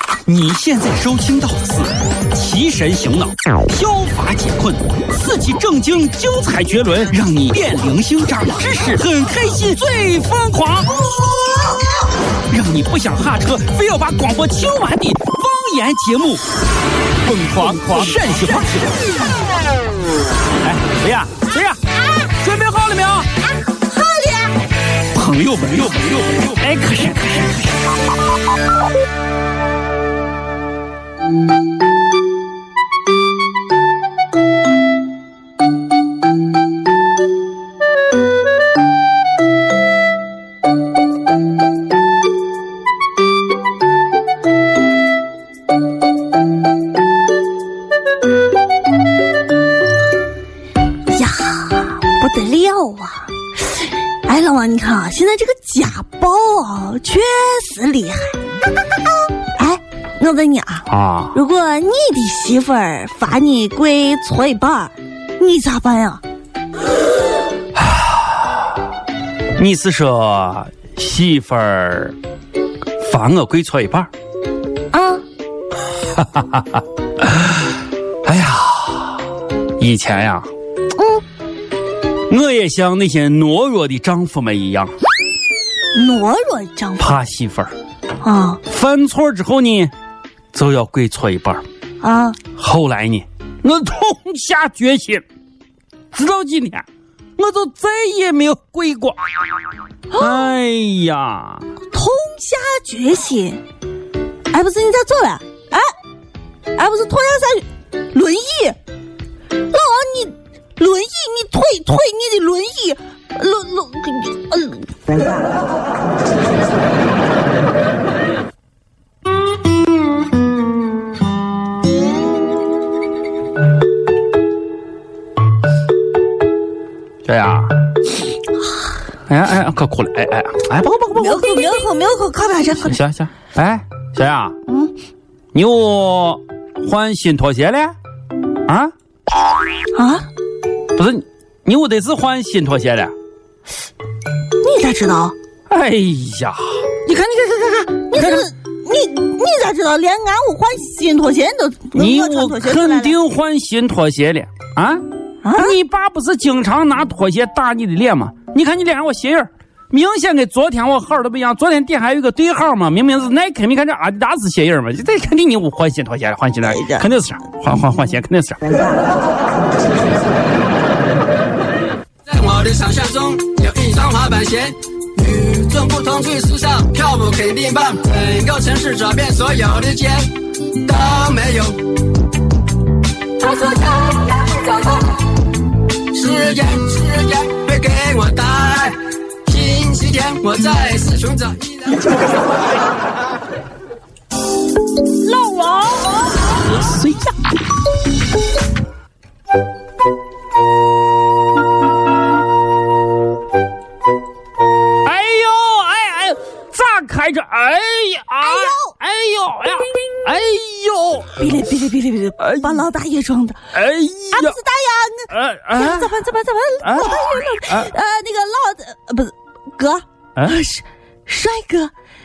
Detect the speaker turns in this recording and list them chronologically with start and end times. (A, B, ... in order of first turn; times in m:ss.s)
0:00.3-0:11.0 A
0:12.5-0:16.4 A
0:17.2-0:19.0 A
0:20.6-0:23.3 A
0:23.7-0:24.6 B
0:25.1-0:27.8 A
0:51.0-0:58.4 B
0:59.6-1:06.2 B
1:00.9-1:01.3 A
1:07.8-1:08.6 A
1:09.6-1:12.2 A
1:13.0-1:14.1 A
1:14.9-1:15.2 B
1:16.0-1:17.6 A
1:18.2-1:19.2 A
1:19.8-1:20.5 A
1:21.0-1:21.2 B
1:22.3-1:24.9 A
1:25.9-1:27.1 B
1:27.0-1:27.7 A
1:28.2-1:28.6 B
1:28.7-1:29.9 A
1:30.5-1:31.6 A
1:32.0-1:32.4 B
1:32.5-1:35.2 A
1:36.1-1:36.8 A
1:37.4-1:39.2 A
1:40.1-1:40.5 B
1:40.1-1:41.7 A
1:41.9-1:43.6 B
1:44.5-1:45.9 B
1:46.7-1:48.8 B
1:49.7-1:55.2 B
2:07.2-2:07.7 A
2:09.3-2:11.6 A
2:11.1-2:13.0 B
2:12.8-2:14.5 A
2:14.7-2:14.9 B
2:15.5-2:18.0 A
2:18.6-2:18.9 A
2:19.9-2:20.3 B
2:20.9-2:23.1 A
2:24.6-2:25.3 B
2:25.7-2:26.6 A
2:27.0-2:33.1 B
2:28.2-2:28.5 A
2:31.9-2:35.0 A
2:35.4-2:35.8 B
2:35.5-2:48.6 A
2:46.6-2:47.1 B
2:52.2-3:01.9 C
3:03.4-3:05.2 C
3:06.0-3:12.5 C
3:15.4-3:15.8 B
3:16.6-3:17.4 A
3:25.0-3:31.4 A
3:28.4-3:29.0 B
3:31.4-3:33.6 B
3:32.4-3:32.8 A
3:33.7-3:34.6 A
3:34.3-3:41.9 B
3:35.3-3:36.2 A
3:36.8-3:37.9 A